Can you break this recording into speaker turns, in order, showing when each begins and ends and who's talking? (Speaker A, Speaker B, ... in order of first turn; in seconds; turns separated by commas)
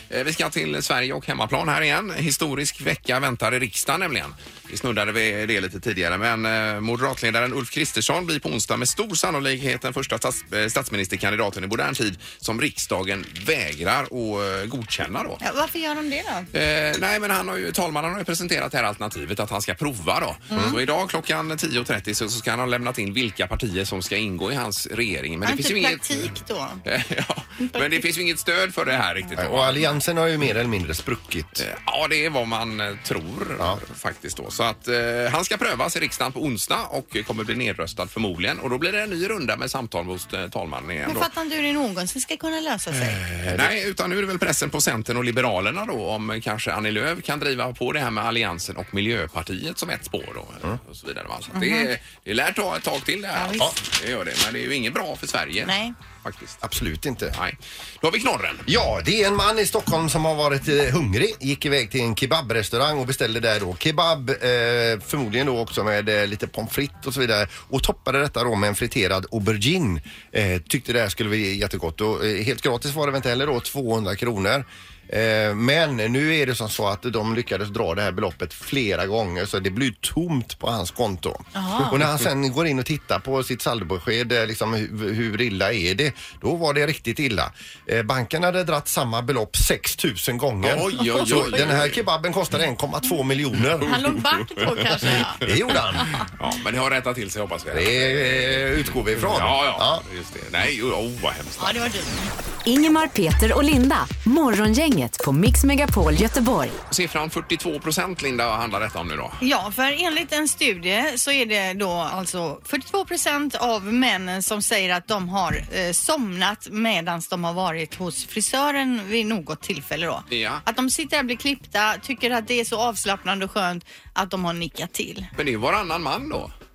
Speaker A: 0.1-15.4, Speaker B: 15.4-16.5, Speaker A: 16.5-26.3, Speaker B: 20.5-20.8, Speaker B: 25.4-26.8, Speaker A: 26.9-30.0, Speaker B: 27.6-28.1, Speaker C: 29.4-31.6, Speaker A: 31.6-41.3, Speaker B: 41.1-43.2, Speaker A: 43.0-56.6, Speaker C: 43.5-43.7, Speaker B: 51.5-51.9, Speaker B: 53.3-53.7, Speaker B: 55.6-56.0, Speaker C: 56.6-57.4, Speaker A: 57.3-58.7, Speaker C: 58.7-94.2, Speaker B: 81.5-82.0, Speaker A: 90.6-92.0, Speaker B: 93.8-95.4, Speaker A: 93.8-95.5, Speaker C: 95.1-96.2, Speaker A: 96.2-101.8, Speaker C: 97.7-100.0, Speaker B: 101.6-102.3, Speaker D: 102.7-106.8, Speaker A: 106.9-109.4, Speaker B: 109.4-125.3, Speaker A: 120.3-120.6, Speaker A: 125.4-126.5